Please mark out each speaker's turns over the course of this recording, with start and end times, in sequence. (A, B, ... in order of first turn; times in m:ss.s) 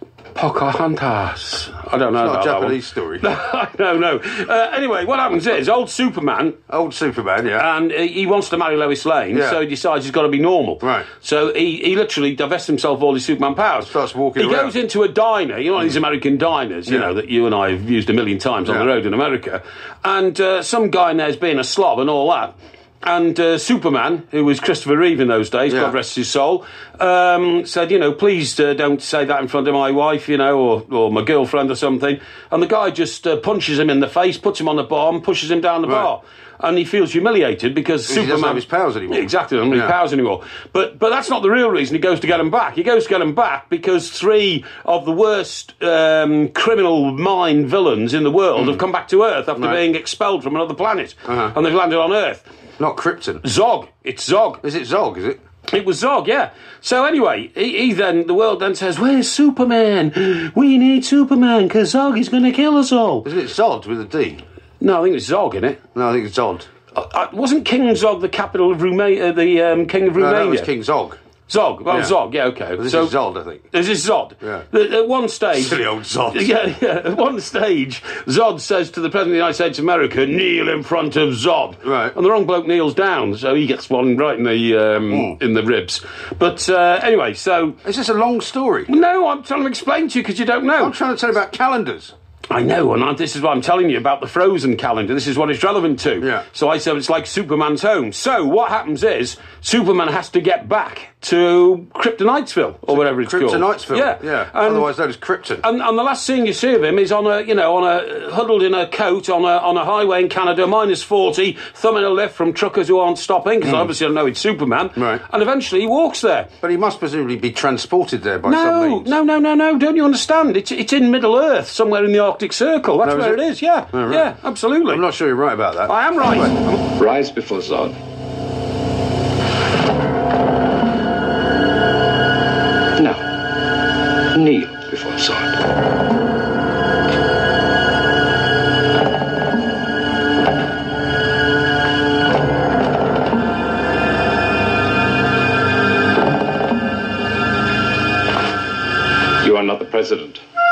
0:00.4-0:06.6 A
0:02.2-0:03.2 B
0:06.7-0:07.7 B
0:07.6-0:52.5 A
0:09.3-0:09.6 B
0:10.8-0:11.1 B
0:13.8-0:14.7 B
0:25.7-0:26.0 B
0:35.8-0:36.1 B
0:38.1-0:40.0 B
0:48.6-0:48.8 B
0:49.6-0:49.8 B
0:51.3-0:51.6 B
0:52.8-0:53.4 B
0:53.4-0:54.6 A
0:54.6-0:55.4 B
0:55.7-1:03.3 A
1:03.2-1:04.4 B
1:04.8-1:05.8 A
1:06.0-1:06.7 B
1:06.9-1:10.7 A
1:10.2-1:11.2 B
1:11.5-1:13.2 A
1:11.9-1:12.1 B
1:12.8-1:13.7 B
1:13.7-1:27.8 A
1:15.5-1:16.5 B
1:21.8-1:22.2 B
1:25.1-1:25.4 B
1:27.8-1:28.9 B
1:28.9-1:31.0 A
1:30.8-1:32.1 B
1:32.5-1:44.9 A
1:42.9-1:45.6 B
1:45.6-1:56.5 A
1:53.6-1:53.9 B
1:55.0-1:55.2 B
1:56.6-1:59.2 B
1:58.5-2:05.0 A
2:03.0-2:04.3 B
2:04.9-2:06.6 B
2:05.9-2:07.0 A
2:07.0-2:08.0 C
2:14.3-2:15.6 C
2:29.4-2:30.4 C